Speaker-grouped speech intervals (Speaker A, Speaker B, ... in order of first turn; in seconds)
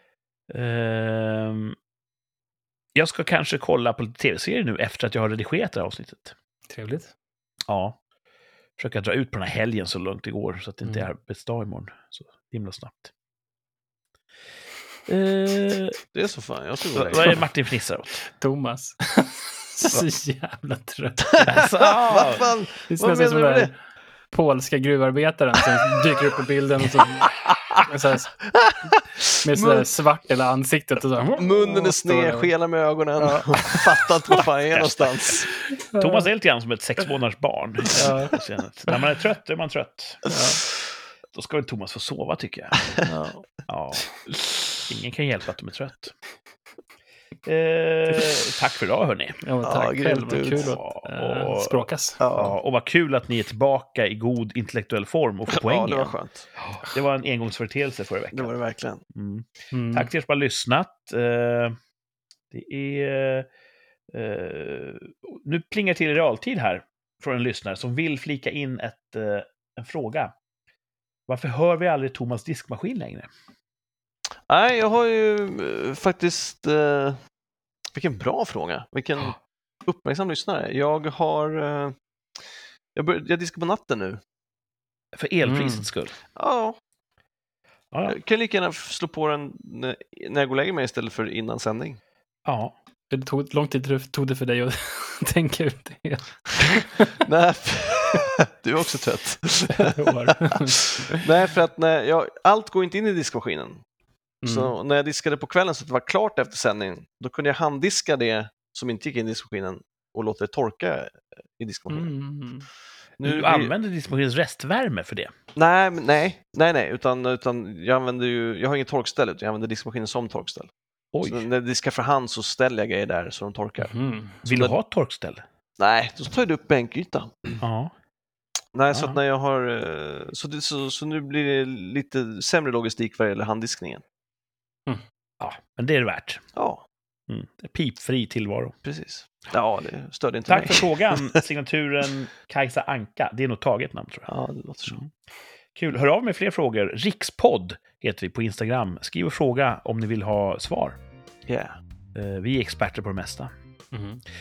Speaker A: 0.5-1.8, 2.9-6.3, 7.7-8.0, 8.8-13.1, 15.1-16.0, 16.9-18.2, 21.4-22.5, 34.7-35.3, 36.0-40.2, 41.3-42.8, 43.7-44.1, 44.8-46.1, 47.4-49.4, 50.6-58.5, 59.1-61.8, 62.5-63.5, 64.1-70.3, 71.3-73.3, 85.1-86.2, 87.9-88.2, 92.5-92.7, 113.2-115.3, 121.1-121.5, 124.4-125.4, 127.6-127.9, 128.9-129.2, 135.4-136.4, 137.3-138.8, 140.5-144.3, 145.7-151.0, 152.1-153.5
Speaker B: 6.7-7.1, 18.4-21.7, 22.9-23.7, 24.3-28.4, 29.4-32.5, 33.2-33.9, 35.7-36.3, 37.9-38.4, 40.2-40.6, 43.0-43.5, 49.4-52.2, 59.7-60.1, 85.6-85.8, 93.1-97.2, 99.8-101.3, 104.4-104.7, 111.9-112.7, 123.8-124.4, 153.9-154.2
Speaker C: 16.1-17.4, 21.3-23.7, 27.3-27.8, 28.5-29.9, 31.4-35.5, 49.6-50.7, 52.2-52.5, 55.5-56.4, 58.3-59.0, 74.5-77.2, 77.9-81.9, 82.9-84.2, 86.3-86.8, 88.1-92.0, 97.2-103.8, 104.4-112.1, 113.2-113.7, 115.5-120.7, 121.2-124.7, 125.8-127.6, 128.7-134.0, 136.5-136.8, 138.8-141.4, 144.3-145.0, 151.5-151.8